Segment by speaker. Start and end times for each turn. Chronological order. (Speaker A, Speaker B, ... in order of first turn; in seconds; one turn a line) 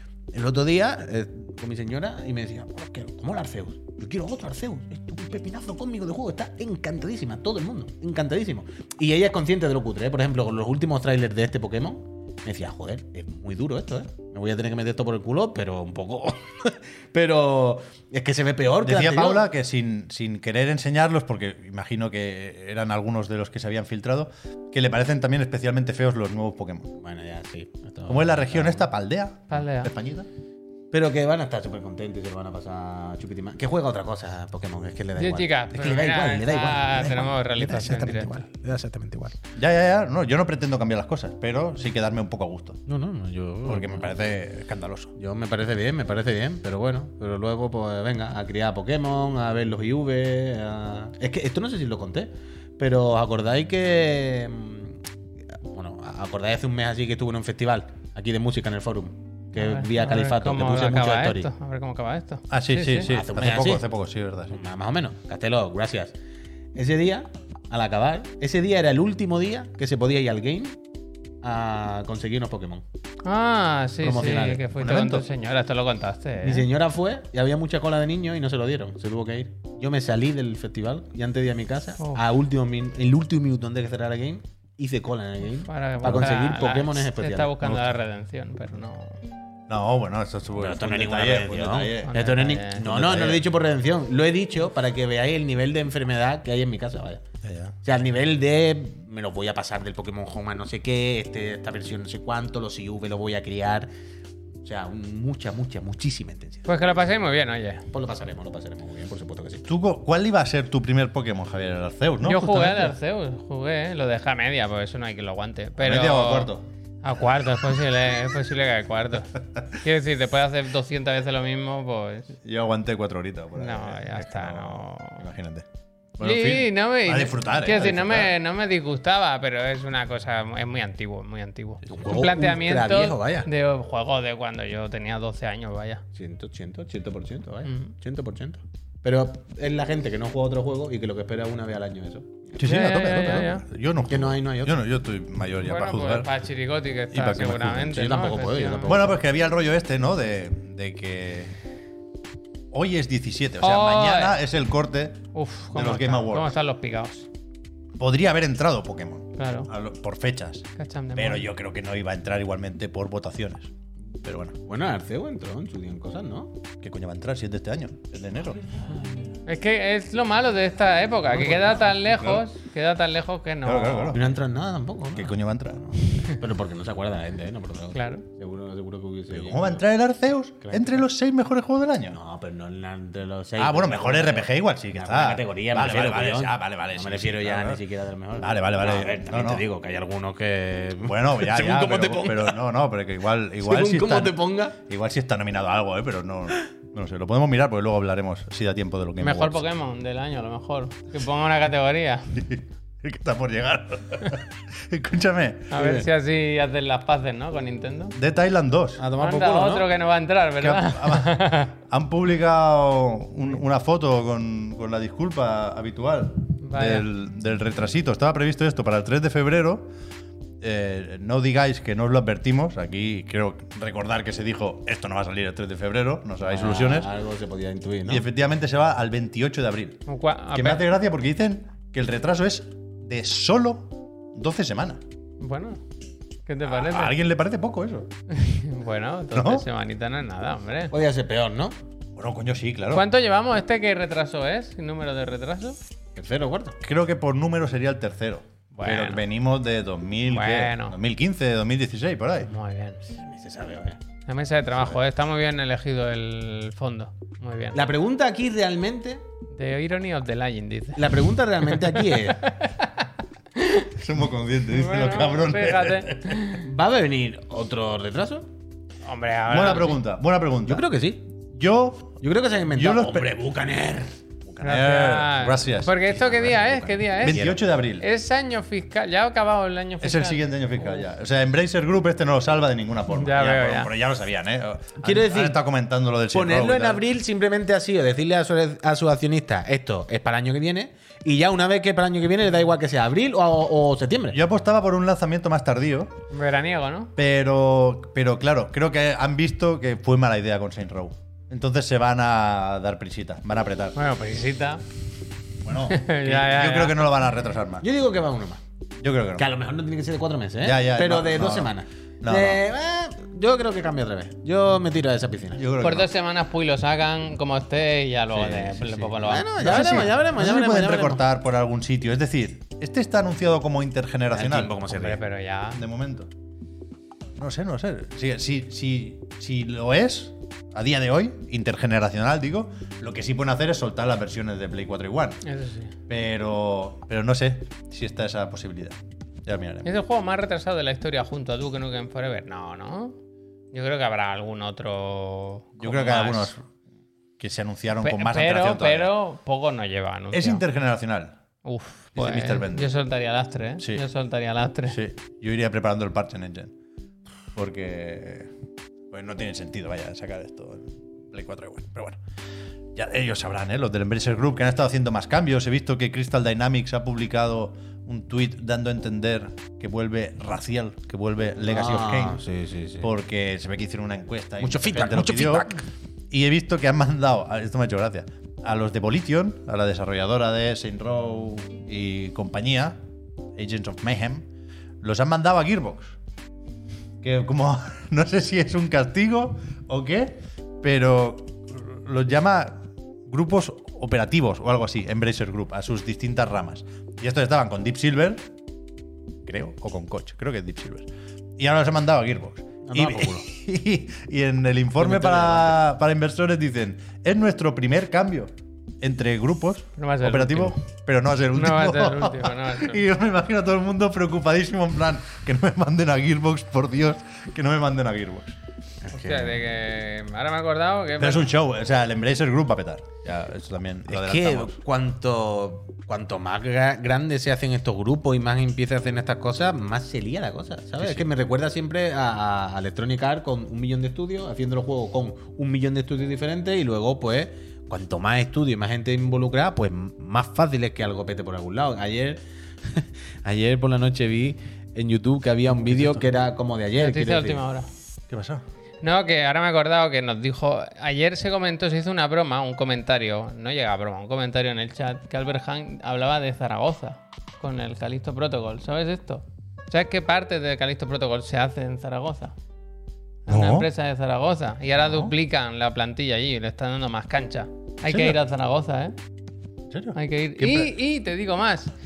Speaker A: 0.3-19.5
Speaker B: 18.8-26.9
Speaker A: 27.0-28.9
Speaker B: 28.1-30.3
Speaker C: 29.5-29.9
Speaker A: 30.9-39.4
Speaker C: 35.2-38.4
Speaker B: 39.6-42.8
Speaker A: 42.9-44.1
Speaker B: 43.6-45.1
Speaker A: 45.2-55.0
Speaker A: 55.5-61.5
Speaker C: 59.6-63.1
Speaker B: 62.5-64.6
Speaker A: 63.0-63.8
Speaker A: 64.5-66.2
Speaker A: 66.8-70.8
Speaker A: 71.4-72.8
Speaker C: 73.2-76.7
Speaker A: 74.0-74.6
Speaker B: 74.8-75.2
Speaker A: 76.4-87.5
Speaker C: 85.7-89.2
Speaker B: 87.6-87.9
Speaker B: 89.7-92.2
Speaker A: 90.5-97.2
Speaker C: 92.0-92.8
Speaker B: 92.8-93.4
Speaker B: 97.4-97.8
Speaker A: 97.8-103.9
Speaker A: 104.6-106.7
Speaker C: 106.7-107.9
Speaker A: 107.9-109.7
Speaker B: 109.7-112.9
Speaker C: 112.2-116.5
Speaker B: 115.8-116.7
Speaker C: 117.0-122.3
Speaker B: 122.4-125.7
Speaker C: 123.5-125.2
Speaker B: 126.2-128.3
Speaker C: 126.2-136.0
Speaker A: 131.9-133.5
Speaker A: 136.1-142.6
Speaker C: 137.7-137.9
Speaker B: 142.6-146.3
Speaker C: 142.6-143.6
Speaker A: 144.1-144.8
Speaker C: 145.6-149.0
Speaker B: 147.1-148.0
Speaker A: 147.9-149.2
Speaker B: 148.9-151.5
Speaker B: 152.7-156.5
Speaker C: 153.6-154.4
Speaker C: 155.3-157.3
Speaker B: 158.0-164.6
Speaker C: 159.4-159.7
Speaker C: 160.8-161.4
Speaker A: 164.6-166.6
Speaker B: 166.8-168.6
Speaker C: 169.5-174.2
Speaker B: 172.0-172.4
Speaker B: 173.6-174.4
Speaker A: 174.1-179.8
Speaker B: 175.2-175.8
Speaker C: 177.9-178.2
Speaker B: 179.3-182.2
Speaker A: 180.6-181.0
Speaker A: 182.1-192.6
Speaker B: 183.6-187.8
Speaker B: 188.4-189.7
Speaker B: 191.0-199.7
Speaker A: 193.6-194.8
Speaker C: 199.2-202.3
Speaker B: 202.4-205.7
Speaker C: 205.7-208.1
Speaker A: 205.7-206.1
Speaker B: 208.1-209.0
Speaker A: 209.0-209.9
Speaker C: 209.2-211.7
Speaker B: 210.6-219.9
Speaker C: 216.7-217.1
Speaker B: 220.6-227.1
Speaker A: 226.4-228.2
Speaker B: 228.1-230.0
Speaker C: 230.1-230.9
Speaker B: 230.5-235.0
Speaker C: 235.4-235.8
Speaker C: 236.5-237.2
Speaker B: 236.7-238.1
Speaker C: 238.3-240.9
Speaker B: 239.3-239.7
Speaker A: 240.9-241.8
Speaker B: 242.2-243.1
Speaker C: 242.9-245.8
Speaker A: 246.2-246.8
Speaker B: 246.8-252.5
Speaker C: 248.8-249.2
Speaker C: 250.3-251.0
Speaker C: 252.5-253.0
Speaker A: 253.1-254.0
Speaker C: 254.3-257.8
Speaker A: 257.7-259.2
Speaker C: 259.5-263.9
Speaker A: 261.0-262.5
Speaker B: 264.0-266.5
Speaker C: 264.7-266.6
Speaker A: 266.5-268.5
Speaker C: 269.0-270.0
Speaker B: 269.5-270.8
Speaker A: 270.6-271.2
Speaker B: 271.5-272.2
Speaker A: 272.2-274.6
Speaker B: 272.7-273.6
Speaker B: 274.6-278.1
Speaker C: 274.6-281.0
Speaker A: 276.4-277.6
Speaker B: 280.0-287.0
Speaker C: 283.1-283.9
Speaker A: 285.0-285.6
Speaker A: 286.3-294.4
Speaker B: 294.3-296.2
Speaker C: 296.3-297.1
Speaker B: 297.2-304.0
Speaker C: 304.0-304.8
Speaker B: 305.6-307.8
Speaker C: 305.9-307.0
Speaker A: 307.8-308.6
Speaker B: 309.0-309.4
Speaker A: 309.4-315.6
Speaker B: 310.6-312.6
Speaker B: 315.6-316.1
Speaker C: 315.8-320.1
Speaker B: 318.4-318.9
Speaker A: 318.4-321.2
Speaker B: 319.6-324.8
Speaker A: 324.3-325.2
Speaker C: 324.9-325.8
Speaker B: 325.7-326.3
Speaker B: 327.4-335.4
Speaker C: 335.4-335.9
Speaker B: 336.1-339.9
Speaker C: 339.8-343.2
Speaker C: 343.7-346.5
Speaker B: 345.8-346.6
Speaker B: 347.4-349.1
Speaker C: 348.0-350.6
Speaker B: 350.3-351.3
Speaker C: 351.6-355.0
Speaker B: 352.2-352.9
Speaker B: 354.9-356.7
Speaker B: 357.5-358.5
Speaker B: 359.1-362.2
Speaker B: 362.9-372.4
Speaker A: 371.7-373.1
Speaker B: 373.0-375.7
Speaker A: 374.6-375.9
Speaker B: 376.3-383.0
Speaker B: 383.6-384.5
Speaker B: 385.0-386.2
Speaker B: 387.2-398.4
Speaker B: 399.5-418.6
Speaker A: 402.8-403.5
Speaker A: 405.0-405.8
Speaker C: 410.0-410.8
Speaker C: 411.5-413.0
Speaker A: 419.0-419.6
Speaker C: 419.1-421.5
Speaker B: 421.2-424.8
Speaker A: 424.1-447.6
Speaker B: 431.0-431.2
Speaker B: 445.9-446.2
Speaker C: 447.0-447.9
Speaker B: 448.3-448.6
Speaker C: 449.0-462.5
Speaker C: 463.5-469.1
Speaker B: 463.5-463.9
Speaker B: 465.0-465.3
Speaker B: 468.1-468.4
Speaker B: 469.9-470.9
Speaker C: 470.1-471.9